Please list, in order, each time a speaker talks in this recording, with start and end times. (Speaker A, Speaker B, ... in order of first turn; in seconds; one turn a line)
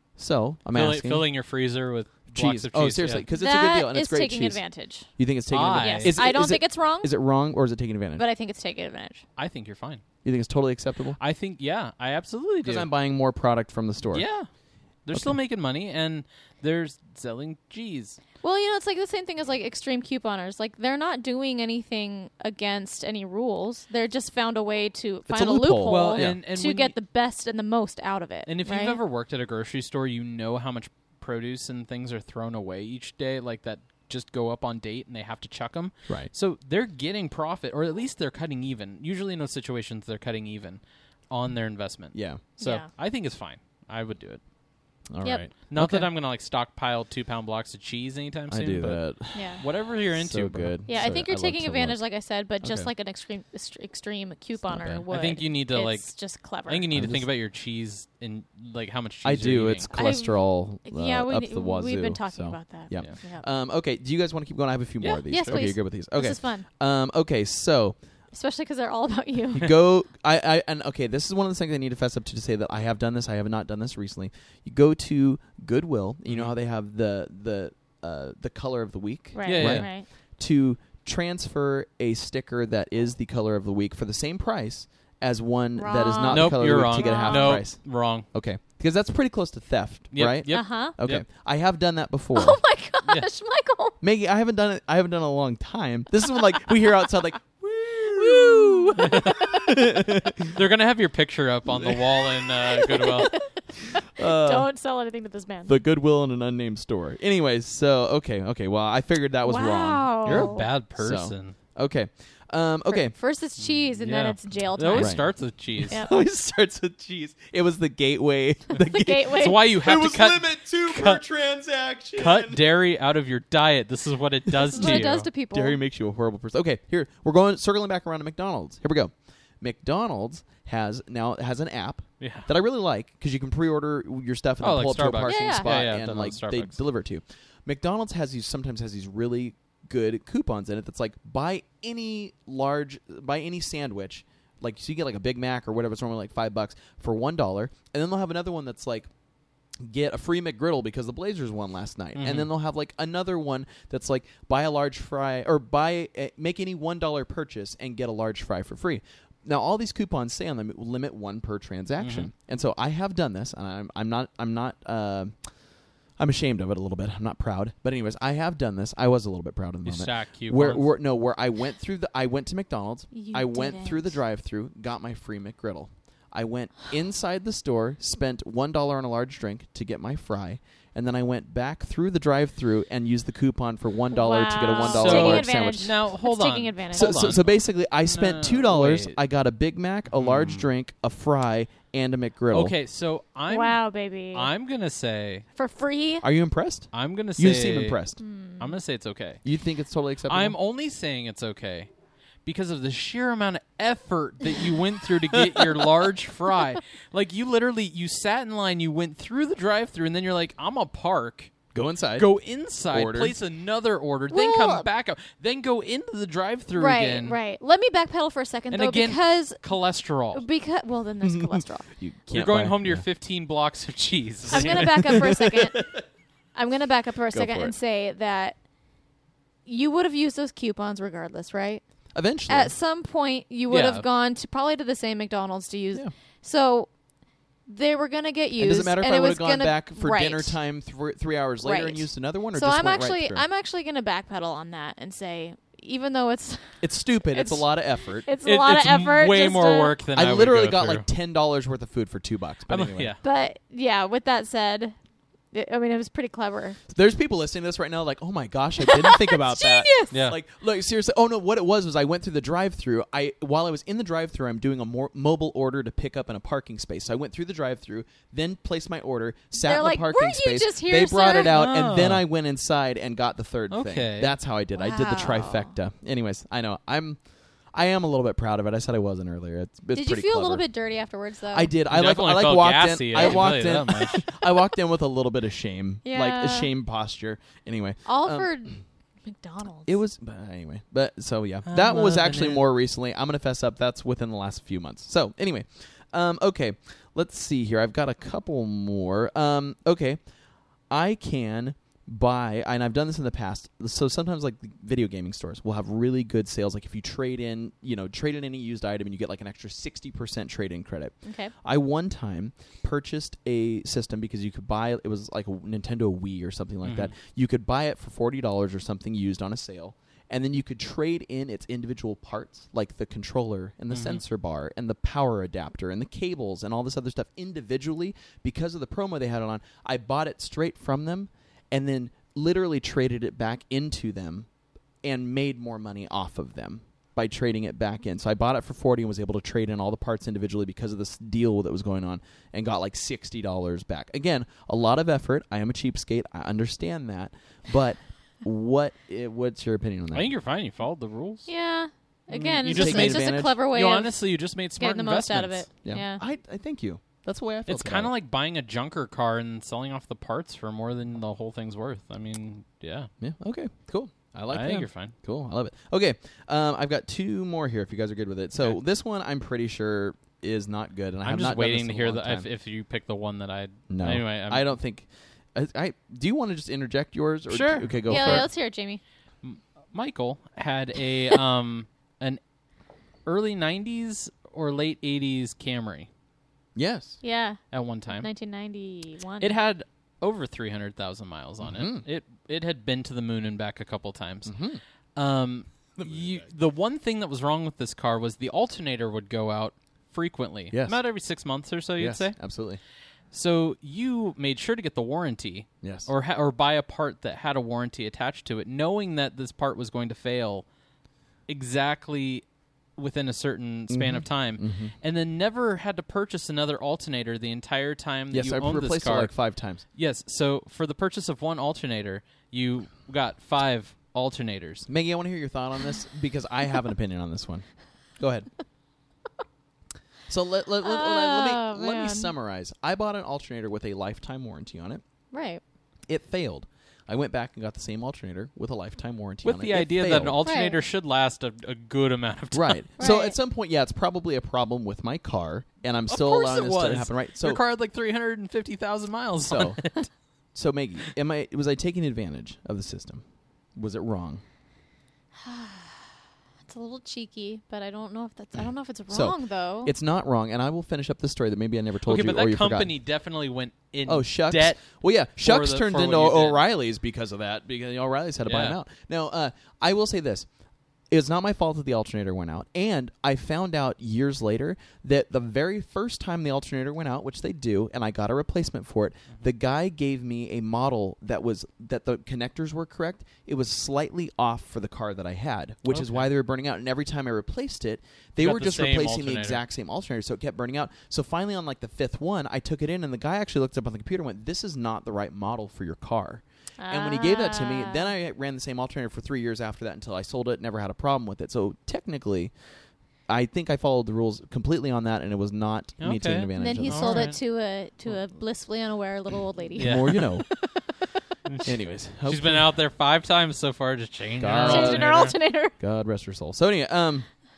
Speaker A: 0.2-1.3
Speaker B: 0.7-3.2
Speaker A: 2.3-4.6
Speaker C: 3.3-5.1
Speaker A: 5.2-8.2
Speaker B: 5.5-6.2
Speaker C: 5.8-7.1
Speaker C: 8.2-9.2
Speaker B: 9.4-10.0
Speaker A: 10.2-11.2
Speaker B: 11.2-12.9
Speaker A: 12.6-14.3
Speaker B: 14.1-14.5
Speaker B: 15.1-18.2
Speaker A: 15.1-15.4
Speaker C: 18.4-29.0
Speaker A: 25.3-26.4
Speaker B: 25.8-26.9
Speaker B: 28.5-44.4
Speaker A: 42.1-42.4
Speaker C: 42.6-42.9
Speaker A: 45.1-46.1
Speaker B: 45.6-49.1
Speaker A: 48.5-52.0
Speaker C: 49.3-49.6
Speaker B: 49.6-50.8
Speaker C: 50.9-56.9
Speaker A: 52.6-52.9
Speaker A: 54.7-55.0
Speaker B: 55.1-56.1
Speaker B: 56.6-59.9
Speaker A: 56.9-57.3
Speaker A: 59.2-68.0
Speaker C: 59.9-63.4
Speaker B: 65.0-65.7
Speaker C: 65.3-66.7
Speaker C: 68.3-69.8
Speaker A: 69.5-92.6
Speaker B: 76.3-76.5
Speaker C: 79.3-80.1
Speaker B: 79.5-79.9
Speaker C: 85.8-87.6
Speaker B: 86.3-88.3
Speaker B: 90.1-91.2
Speaker C: 90.5-91.0
Speaker C: 92.3-94.0
Speaker A: 94.0-100.6
Speaker C: 98.1-100.0
Speaker B: 99.0-99.5
Speaker B: 100.5-103.3
Speaker A: 101.7-102.3
Speaker C: 102.6-105.7
Speaker A: 103.8-104.7
Speaker A: 105.7-113.1
Speaker C: 109.5-110.7
Speaker B: 110.2-111.5
Speaker C: 112.9-115.2
Speaker B: 113.6-116.0
Speaker A: 115.0-122.6
Speaker C: 115.9-116.2
Speaker C: 118.8-119.6
Speaker B: 119.3-121.2
Speaker B: 122.2-125.3
Speaker A: 124.5-149.1
Speaker C: 124.7-125.8
Speaker B: 132.2-132.5
Speaker B: 134.6-136.8
Speaker C: 135.3-135.7
Speaker A: 149.8-165.3
Speaker B: 152.2-152.5
Speaker B: 162.0-162.3
Speaker A: 166.2-185.9
Speaker B: 169.8-170.9
Speaker C: 173.1-174.2
Speaker C: 184.1-187.4
Speaker B: 184.8-189.2
Speaker A: 186.9-192.7
Speaker B: 190.1-190.7
Speaker B: 192.5-195.4
Speaker C: 193.5-194.5
Speaker C: 195.6-196.2
Speaker A: 196.2-198.2
Speaker B: 196.9-198.0
Speaker C: 198.2-198.7
Speaker B: 198.6-199.4
Speaker A: 199.4-200.6
Speaker B: 200.3-201.9
Speaker B: 202.4-211.5
Speaker A: 205.3-205.8
Speaker A: 211.7-212.3
Speaker B: 212.2-217.4
Speaker A: 212.9-213.4
Speaker C: 214.3-214.9
Speaker C: 216.8-219.6
Speaker B: 218.7-220.4
Speaker C: 220.3-221.9
Speaker A: 221.2-223.0
Speaker B: 222.3-225.3
Speaker A: 224.5-226.0
Speaker C: 224.5-225.9
Speaker C: 226.6-228.6
Speaker A: 227.3-227.7
Speaker C: 229.7-231.8
Speaker A: 232.2-232.7
Speaker C: 232.5-236.9
Speaker B: 233.7-234.1
Speaker C: 237.7-240.6
Speaker A: 238.6-243.4
Speaker C: 241.6-250.0
Speaker A: 246.8-248.3
Speaker B: 248.4-251.1
Speaker A: 250.2-253.1
Speaker B: 252.7-253.2
Speaker C: 253.2-255.0
Speaker C: 255.5-256.8
Speaker A: 256.9-277.2
Speaker C: 258.8-260.1
Speaker B: 260.1-260.4
Speaker C: 269.6-271.6
Speaker B: 271.4-272.2
Speaker B: 273.7-274.4
Speaker C: 274.8-275.7
Speaker A: 277.7-280.6
Speaker C: 279.9-281.7
Speaker A: 281.5-288.5
Speaker B: 281.9-284.3
Speaker C: 283.2-283.4
Speaker C: 286.1-286.7
Speaker C: 288.1-289.9
Speaker A: 289.9-300.2
Speaker B: 291.7-292.6
Speaker A: 300.9-334.5
Speaker C: 311.2-311.5
Speaker B: 316.9-317.1
Speaker B: 323.9-324.2
Speaker A: 335.0-350.3
Speaker B: 350.1-351.5
Speaker C: 351.5-354.2
Speaker B: 352.3-355.7
Speaker A: 352.6-353.6
Speaker C: 354.8-356.2
Speaker A: 355.8-358.1
Speaker B: 357.7-363.1
Speaker A: 363.2-372.5
Speaker B: 364.5-365.1
Speaker B: 371.2-374.6
Speaker A: 373.9-378.5
Speaker B: 377.5-378.5
Speaker C: 378.1-379.0
Speaker B: 379.4-382.4
Speaker B: 383.3-386.1
Speaker A: 386.8-387.2
Speaker C: 387.2-389.6
Speaker B: 387.7-388.3
Speaker B: 389.4-394.5
Speaker A: 391.6-392.1
Speaker A: 394.4-394.8
Speaker B: 395.2-402.4
Speaker A: 396.0-396.5
Speaker A: 400.7-401.0
Speaker A: 402.0-402.8
Speaker B: 403.3-410.6
Speaker A: 405.8-406.1
Speaker B: 411.5-412.4
Speaker B: 413.0-419.4
Speaker A: 413.9-414.9
Speaker A: 418.3-419.8
Speaker B: 419.9-424.9
Speaker A: 424.9-427.6
Speaker A: 428.2-428.5
Speaker A: 430.3-435.0
Speaker C: 430.8-432.3
Speaker C: 435.3-435.6
Speaker A: 436.1-440.4
Speaker B: 439.4-442.8
Speaker C: 440.4-440.8
Speaker A: 442.5-447.6
Speaker C: 443.0-443.4
Speaker B: 446.1-450.1
Speaker A: 449.4-449.8
Speaker A: 450.5-453.2
Speaker A: 453.8-454.4
Speaker C: 455.4-456.1
Speaker C: 456.6-459.9
Speaker A: 459.1-462.9
Speaker B: 462.1-466.6
Speaker A: 464.1-470.5
Speaker B: 468.5-468.8
Speaker A: 471.1-502.5
Speaker B: 485.9-486.3
Speaker B: 488.4-489.6
Speaker C: 496.8-498.1
Speaker A: 503.3-507.3
Speaker B: 506.0-507.4
Speaker C: 506.6-510.9
Speaker A: 509.8-510.5
Speaker B: 509.8-510.6
Speaker B: 511.5-511.7
Speaker A: 511.6-512.7
Speaker B: 512.3-515.4
Speaker A: 514.4-517.3
Speaker C: 514.6-515.8